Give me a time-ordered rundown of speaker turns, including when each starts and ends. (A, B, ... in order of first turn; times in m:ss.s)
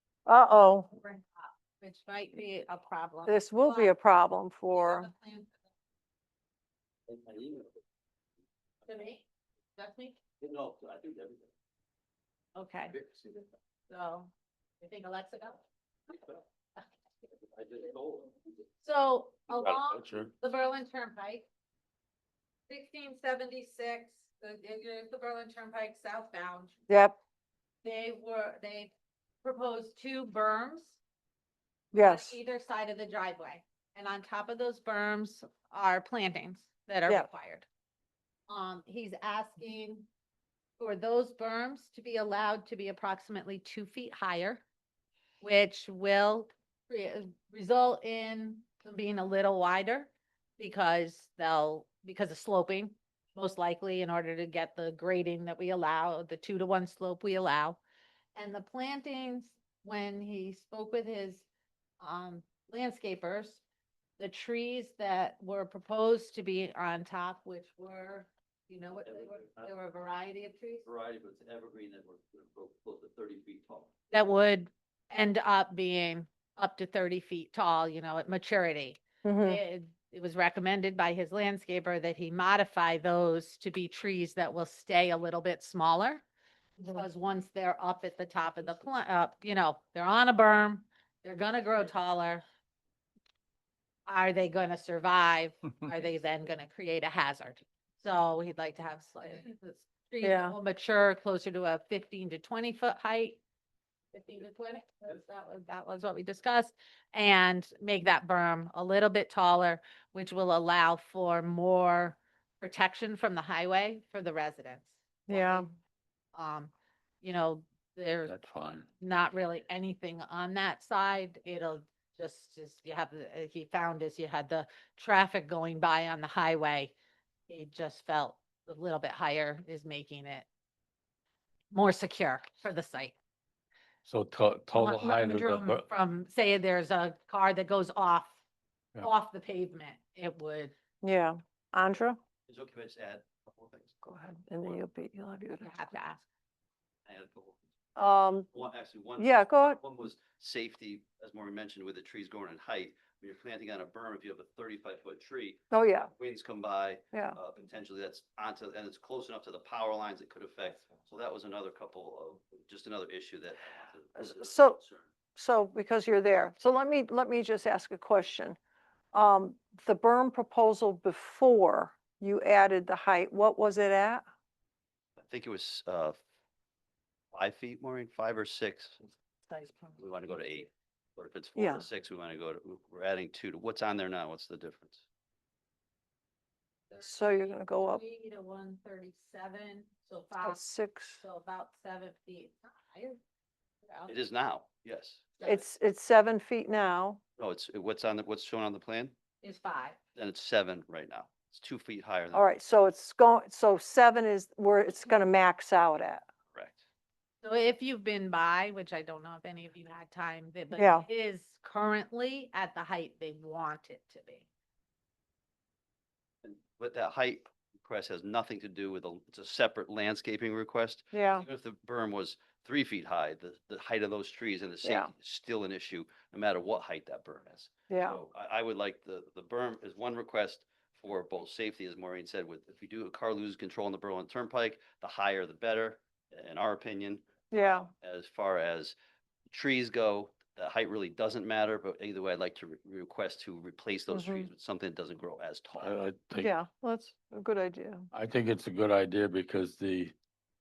0:00.3-0:00.9 A
0:00.9-0:03.9 B
0:03.2-0:05.1 A
0:04.8-0:05.5 B
0:07.1-0:07.8 C
0:08.8-0:09.2 B
0:09.8-0:10.2 B
0:10.4-0:11.5 C
0:12.5-0:13.0 B
0:12.9-0:13.2 C
0:13.9-0:15.6 B
0:17.5-0:18.3 C
0:18.8-0:21.4 B
0:19.6-0:20.3 D
0:22.7-0:26.7 B
0:26.9-0:27.2 A
0:27.8-0:28.9 B
0:29.4-0:31.0 B
0:31.9-0:32.4 A
0:31.9-0:37.7 B
0:38.5-0:40.1 B
0:40.8-0:44.6 B
0:45.4-0:57.8 B
0:58.3-1:01.4 B
1:02.0-1:03.6 B
1:04.2-1:10.9 B
1:09.1-1:09.7 C
1:10.8-1:13.9 C
1:14.1-1:26.2 B
1:19.2-1:19.6 A
1:26.8-1:32.4 B
1:34.1-1:43.4 B
1:40.2-1:40.6 A
1:44.1-1:55.6 B
1:55.3-1:55.6 A
1:56.3-1:58.4 B
1:58.3-1:58.9 D
1:59.0-2:06.9 B
2:07.5-2:10.5 B
2:11.7-2:13.2 B
2:14.0-2:15.9 D
2:14.8-2:18.4 B
2:19.0-2:20.7 B
2:21.0-2:22.2 A
2:22.5-2:24.0 C
2:24.0-2:25.7 A
2:25.6-2:26.2 B
2:27.1-2:27.6 C
2:28.0-2:28.5 A
2:28.5-2:45.1 C
2:29.2-2:29.8 A
2:35.7-2:36.1 A
2:37.1-2:37.4 A
2:44.2-2:44.8 A
2:45.4-2:48.6 A
2:49.1-2:54.2 A
2:55.2-2:56.2 C
2:57.3-2:59.0 C
2:59.5-3:00.0 A
3:00.0-3:05.0 C
3:01.6-3:01.9 A
3:06.9-3:10.7 B
3:07.0-3:08.0 A
3:10.4-3:11.2 A
3:11.2-3:13.2 B
3:13.9-3:14.1 B
3:14.1-3:15.2 C
3:15.4-3:15.6 B
3:15.4-3:17.2 A
3:17.4-3:19.1 C
3:19.4-3:20.0 B
3:20.2-3:22.4 C
3:22.3-3:26.2 A
3:26.5-3:26.8 C
3:27.4-3:34.5 B
3:30.8-3:31.1 A
3:36.4-3:59.0 C
3:41.1-3:41.4 A
3:44.8-3:45.1 A
3:47.9-3:48.2 A
3:57.5-3:57.9 A
3:59.5-4:06.0 C
4:04.1-4:04.5 A
4:05.8-4:06.5 D
4:06.4-4:08.1 A
4:08.1-4:10.1 D